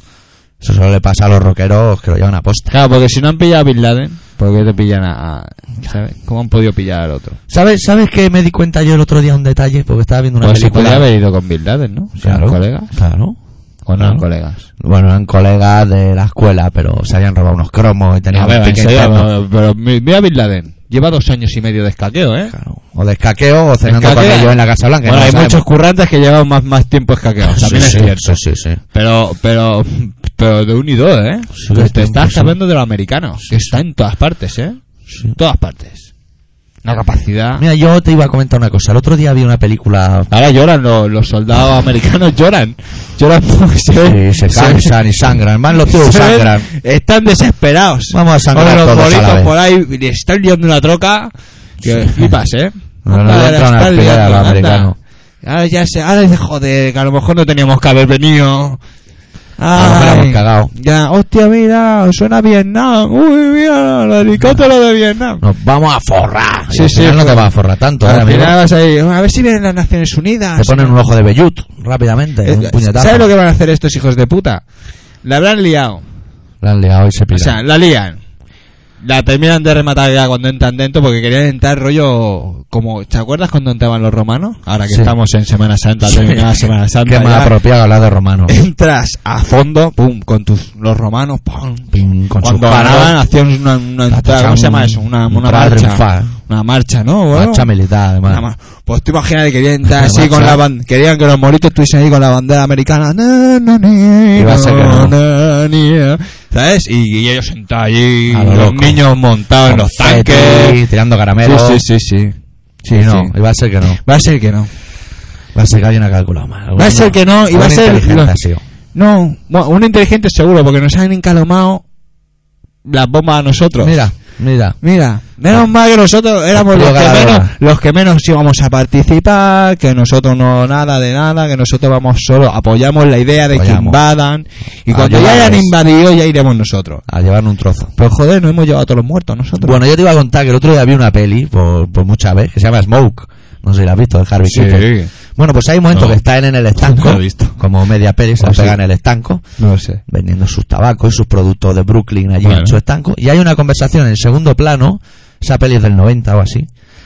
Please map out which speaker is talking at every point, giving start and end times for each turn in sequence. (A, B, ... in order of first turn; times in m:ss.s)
0:00.6-0:02.7 A
0:02.7-0:07.4 B
0:07.5-0:11.0 A
0:10.4-0:12.9 B
0:12.2-0:13.4 A
0:13.8-0:14.6 B
0:14.0-0:14.2 A
0:14.8-0:19.3 A
0:18.3-0:22.5 B
0:22.5-0:25.6 A
0:23.8-0:28.4 B
0:27.4-0:28.8 A
0:28.9-0:36.1 B
0:31.6-0:32.6 A
0:33.5-0:33.8 A
0:35.1-0:35.3 A
0:36.8-0:37.6 B
0:37.6-0:40.3 A
0:40.3-0:58.8 B
0:43.9-0:46.7 A
0:48.1-0:49.5 A
0:51.8-0:52.4 A
0:53.0-0:55.0 A
0:59.6-1:05.4 B
0:59.7-1:00.7 A
1:05.4-1:08.6 A
1:06.7-1:11.0 B
1:10.6-1:13.3 A
1:12.4-1:14.6 B
1:15.2-1:16.0 B
1:16.6-1:17.6 A
1:17.3-1:18.2 B
1:19.0-1:27.5 B
1:24.9-1:25.1 A
1:26.0-1:28.6 A
1:28.5-1:37.7 B
1:31.9-1:33.2 A
1:34.1-1:36.4 A
1:37.3-1:38.4 A
1:38.2-1:50.8 B
1:39.9-1:40.6 A
1:44.3-1:45.2 A
1:48.3-1:49.0 A
1:49.6-1:51.8 A
1:51.4-1:53.3 B
1:52.9-1:54.0 A
1:54.0-1:54.7 B
1:55.5-1:58.6 A
1:56.8-1:58.3 B
1:58.9-2:01.8 B
2:02.8-2:04.0 B
2:03.8-2:04.8 A
2:04.8-2:17.0 B
2:06.5-2:07.5 A
2:13.5-2:14.0 A
2:14.9-2:15.7 A
2:17.1-2:17.9 A
2:18.0-2:19.8 B
2:19.6-2:29.4 A
2:24.4-2:25.1 B
2:25.9-2:26.2 B
2:26.8-2:27.6 B
2:28.4-2:28.8 B
2:29.6-2:30.0 B
2:30.1-2:36.7 A
2:32.4-2:32.8 B